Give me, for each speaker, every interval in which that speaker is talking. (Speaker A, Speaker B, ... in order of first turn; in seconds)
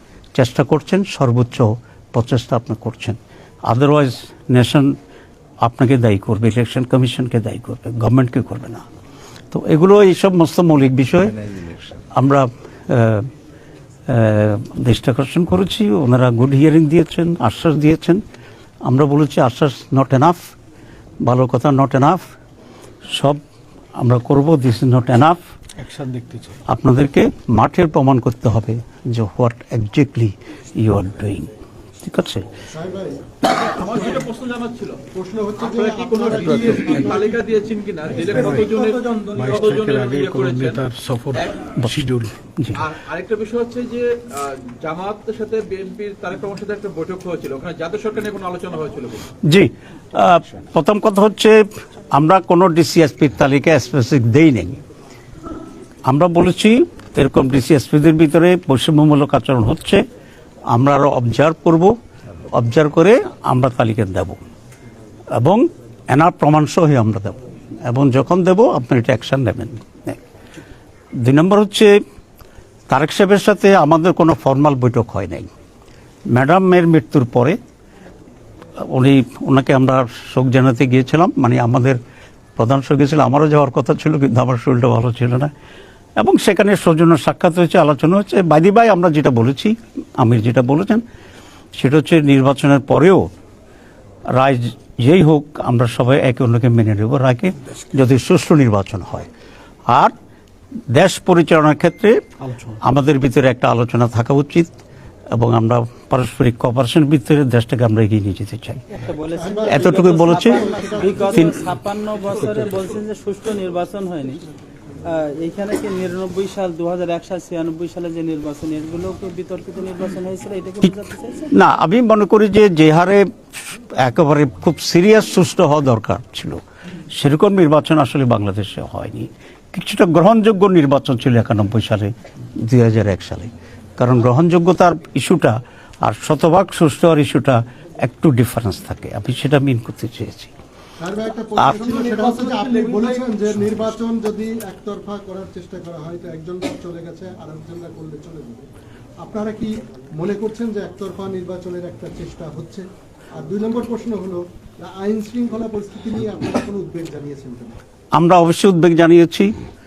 Speaker A: 0.3-3.2, 3.7-5.0, 5.6-8.8, 9.5-13.3, 14.1-18.2, 18.9-20.5, 21.2-22.3, 23.1-23.4, 24.0-25.4, 26.7-31.5, 32.0-32.5, 41.8-42.0, 42.6-42.8, 49.4-51.6, 52.1-54.8, 56.1-60.0, 60.7-61.9, 62.5-64.4, 65.3-70.2, 71.2-72.0, 72.9-75.5, 76.3-77.6, 78.8-82.0, 82.6-85.5, 86.2-91.0, 91.8-93.3, 94.4-99.3, 100.9-102.2, 102.8-104.7, 105.3-108.8, 109.6-110.7, 111.3-111.6, 121.5-140.5, 158.2-159.5
Speaker B: 25.8-26.6, 38.4-38.7, 39.3-42.4
Speaker C: 32.7-33.2, 35.1-37.5, 38.1-39.0, 109.3-111.6, 141.0-148.6, 149.2-152.9, 153.4-157.8
Speaker D: 33.6-35.0, 35.6-40.8, 42.8-49.3
Speaker E: 108.9-114.5, 115.0-121.5